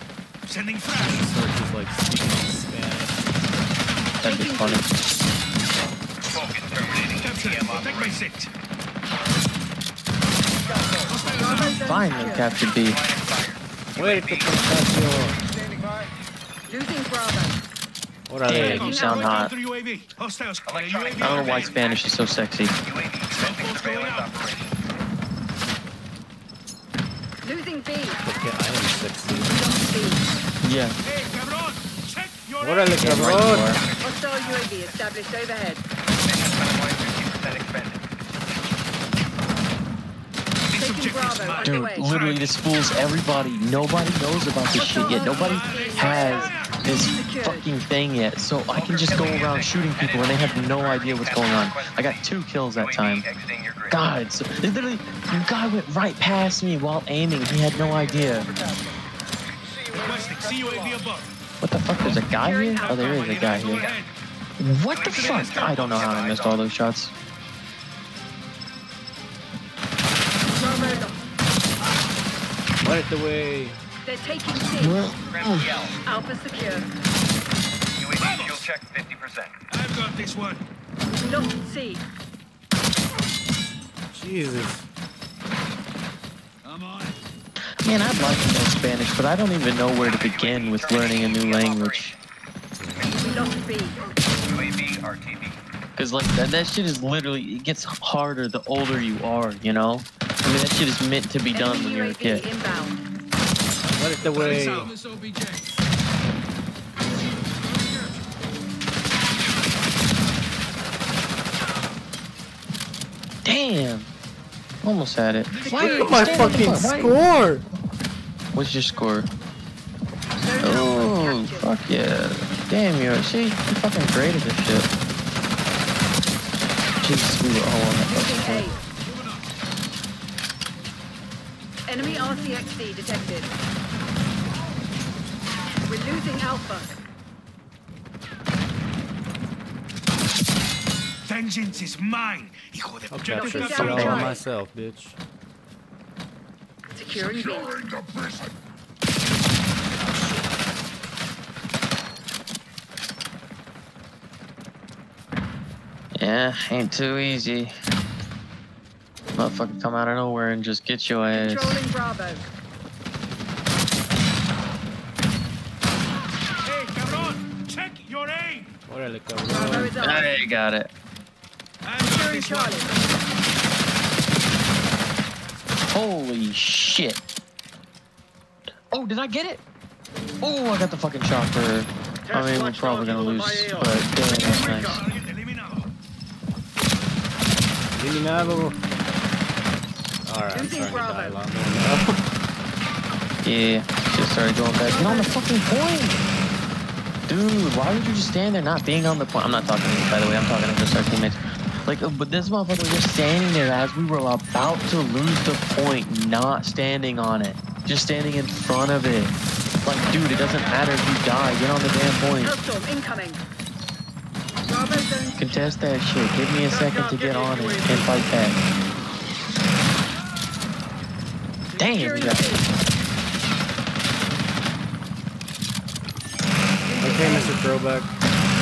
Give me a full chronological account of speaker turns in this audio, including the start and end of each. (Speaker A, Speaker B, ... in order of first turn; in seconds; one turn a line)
Speaker A: 0.5-1.3
Speaker B: 1.0-3.2
Speaker C: 4.2-4.9
Speaker D: 4.2-4.9
Speaker E: 6.3-8.2
Speaker A: 7.2-8.5
Speaker A: 11.1-11.8
Speaker D: 11.3-12.5
Speaker C: 11.6-13.0
Speaker E: 12.6-14.6
Speaker B: 14.0-15.4
Speaker D: 16.7-17.6
Speaker B: 18.3-18.9
Speaker C: 18.5-19.5
Speaker A: 18.5-21.8
Speaker D: 18.6-19.5
Speaker E: 20.7-22.1
Speaker C: 21.2-22.7
Speaker E: 22.8-24.8
Speaker A: 23.4-24.3
Speaker D: 27.4-28.2
Speaker B: 28.2-29.7
Speaker D: 29.5-30.3
Speaker C: 30.6-31.0
Speaker A: 31.1-33.3
Speaker B: 32.6-33.8
Speaker C: 33.0-33.8
Speaker E: 33.6-35.0
Speaker D: 34.0-35.8
Speaker E: 36.2-38.1
Speaker A: 40.7-42.5
Speaker D: 40.8-42.1
Speaker C: 41.6-53.2
Speaker D: 44.7-47.7
Speaker A: 45.2-46.8
Speaker E: 48.7-54.0
Speaker C: 53.9-58.5
Speaker A: 59.9-61.3
Speaker C: 61.6-63.9
Speaker A: 62.0-62.2
Speaker D: 62.3-63.2
Speaker A: 62.8-64.1
Speaker E: 63.6-64.0
Speaker C: 64.6-67.1
Speaker E: 65.0-66.6
Speaker A: 65.0-66.2
Speaker D: 70.6-71.2
Speaker B: 72.8-73.8
Speaker D: 74.0-75.0
Speaker C: 74.8-75.7
Speaker E: 75.2-76.0
Speaker D: 76.0-76.9
Speaker E: 78.0-79.6
Speaker A: 78.2-78.7
Speaker A: 79.7-80.6
Speaker D: 81.1-82.0
Speaker B: 84.1-84.9
Speaker A: 86.7-87.2
Speaker C: 87.8-92.2
Speaker E: 90.0-92.2
Speaker B: 92.8-93.1
Speaker E: 93.0-93.5
Speaker D: 93.1-94.0
Speaker E: 94.4-95.6
Speaker C: 96.0-102.5
Speaker D: 101.5-103.0
Speaker B: 103.9-104.9
Speaker A: 104.3-105.7
Speaker C: 113.5-114.1
Speaker C: 114.8-117.2
Speaker A: 115.6-116.3
Speaker D: 115.6-116.8
Speaker B: 115.8-117.7
Speaker C: 118.5-119.3
Speaker D: 120.4-121.7
Speaker C: 120.6-124.9
Speaker C: 127.0-128.7
Speaker D: 128.1-128.8
Speaker D: 131.9-133.5
Speaker D: 135.9-136.9
Speaker A: 141.3-144.4
Speaker B: 143.1-145.2
Speaker D: 143.4-144.4
Speaker D: 146.9-147.8
Speaker C: 156.2-157.7
Speaker C: 159.4-161.8
Speaker D: 161.3-162.5
Speaker A: 166.7-168.7
Speaker B: 168.9-169.9
Speaker D: 169.5-170.3
Speaker C: 170.0-170.9
Speaker A: 171.8-173.0
Speaker D: 172.0-172.9
Speaker C: 175.9-177.2
Speaker C: 178.9-179.6
Speaker C: 180.4-185.0
Speaker A: 184.3-185.9
Speaker B: 187.9-188.8
Speaker B: 190.2-192.2
Speaker D: 190.5-191.4
Speaker C: 193.4-196.2
Speaker D: 194.8-195.3
Speaker C: 197.3-212.6
Speaker D: 212.4-213.4
Speaker D: 214.7-215.7
Speaker C: 215.4-218.6
Speaker C: 221.8-222.5
Speaker D: 221.8-222.7
Speaker D: 226.9-227.6
Speaker B: 227.0-228.1